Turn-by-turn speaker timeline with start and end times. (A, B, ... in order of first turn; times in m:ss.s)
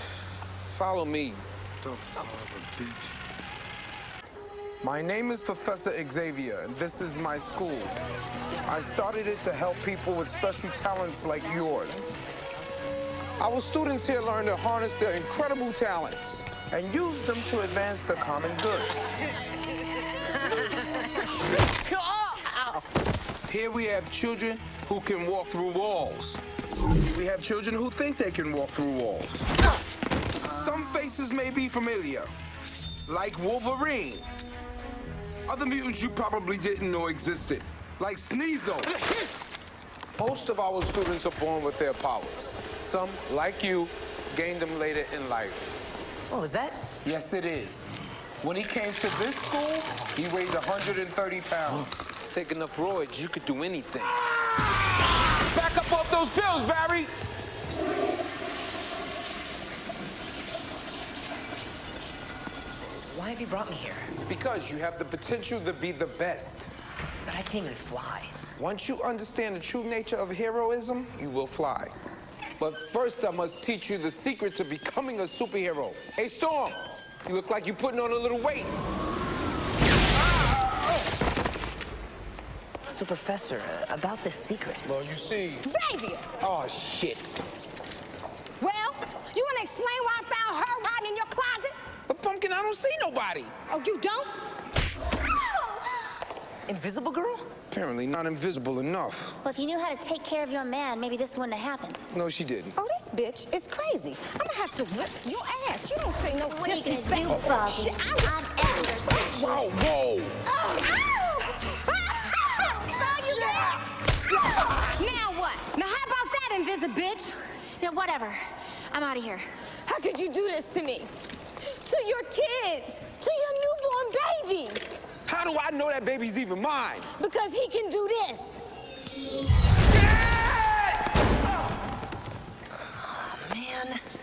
0:00.7-0:01.4 A
0:04.8-0:08.0 A
0:08.6-0:12.2 A
0:13.4-0:19.0 A
0:23.5-0:26.4 A
0:27.0-0:29.5 A
0:30.4-0:32.3 A
0:33.1-0:34.3 A
0:35.5-0:39.0 A
0:40.2-0:45.8 A
0:46.3-0:46.8 B
0:47.0-0:47.9 A
0:48.4-0:54.4 A
0:55.5-0:57.1 A
1:03.0-1:04.1 B
1:04.3-1:06.7 A
1:07.2-1:08.4 B
1:08.6-1:11.9 A
1:12.6-1:18.7 A
1:22.9-1:24.8 B
1:24.8-1:25.7 A
1:25.6-1:26.3 C
1:26.4-1:27.4 A
1:28.6-1:31.8 C
1:32.1-1:33.5 A
1:33.7-1:34.3 C
1:35.4-1:35.8 C
1:37.7-1:39.4 A
1:39.4-1:42.0 D
1:42.1-1:42.7 A
1:42.8-1:49.5 C
1:46.4-1:49.2 D
1:49.2-1:50.4 A
1:50.4-1:58.4 C
1:53.0-1:53.4 D
1:58.9-1:59.4 D
1:59.8-2:01.1 C
2:01.8-2:04.8 C
2:05.2-2:07.1 A
2:07.2-2:08.6 C
2:10.1-2:10.8 A
2:12.9-2:14.0 B